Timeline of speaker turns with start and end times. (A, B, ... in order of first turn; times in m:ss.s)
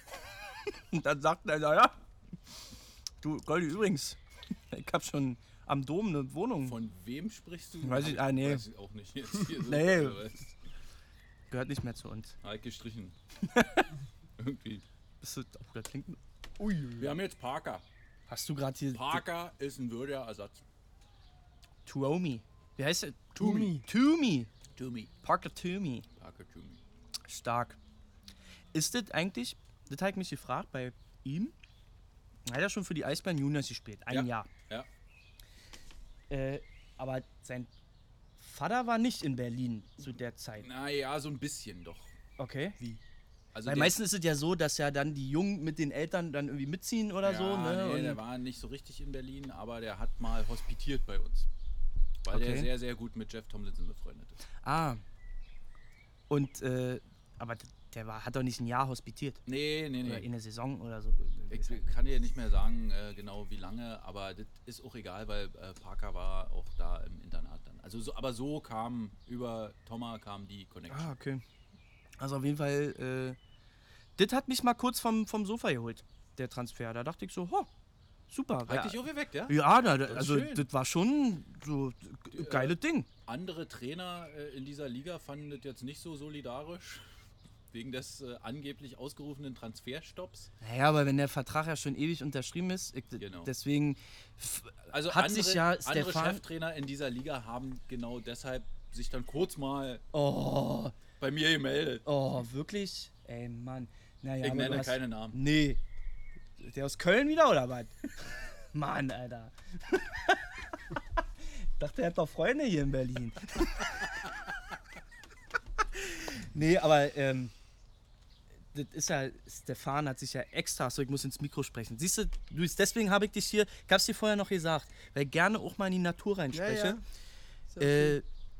0:00.7-0:02.0 A
0:03.2-0:04.2 A
0:04.7-0:06.8 A
0:06.6-0:10.6 B
0:07.8-0:08.6 A
0:09.6-0:10.2 A
0:11.5-0:12.4 A
0:12.4-0:13.2 B
0:13.4-0:13.9 A
0:14.4-0:14.8 B
0:15.2-0:16.2 A
0:16.6-0:17.1 C
0:17.0-0:17.8 B
0:18.3-0:19.2 A
0:18.9-0:20.6 B
0:21.8-0:24.5 A
0:23.4-0:23.8 C
0:23.4-0:23.7 B
0:24.8-0:25.1 B
0:25.2-0:26.0 A
0:26.2-0:26.8 B
0:27.3-0:27.8 A
0:28.7-0:31.5 A
0:32.4-0:34.5 A
0:34.1-0:34.9 B
0:36.3-0:37.7 A
0:38.4-0:40.7 A
0:40.6-0:42.1 B
0:42.4-0:43.0 A
0:43.5-0:44.0 B
0:43.6-0:48.2 A
0:47.2-0:51.5 B
0:52.2-0:54.4 B
0:52.3-0:52.7 A
0:54.6-0:55.0 A
0:56.3-0:59.4 A
0:59.4-1:00.3 B
1:00.0-1:02.0 A
1:01.5-1:11.1 B
1:10.9-1:11.4 A
1:12.2-1:13.4 A
1:14.2-1:17.7 A
1:18.3-1:23.1 A
1:18.6-1:20.7 B
1:22.3-1:22.8 B
1:23.3-1:27.1 B
1:27.7-1:30.5 B
1:30.6-1:36.4 A
1:33.2-1:33.5 B
1:34.9-1:40.0 B
1:40.1-1:41.0 A
1:41.2-1:42.0 B
1:42.0-1:45.8 A
1:44.4-1:45.4 B
1:46.6-1:50.5 A
1:51.2-1:54.0 A
1:55.9-1:57.5 A
1:58.7-2:07.0 A
2:06.5-2:07.0 C
2:07.7-2:08.2 C
2:07.8-2:08.2 A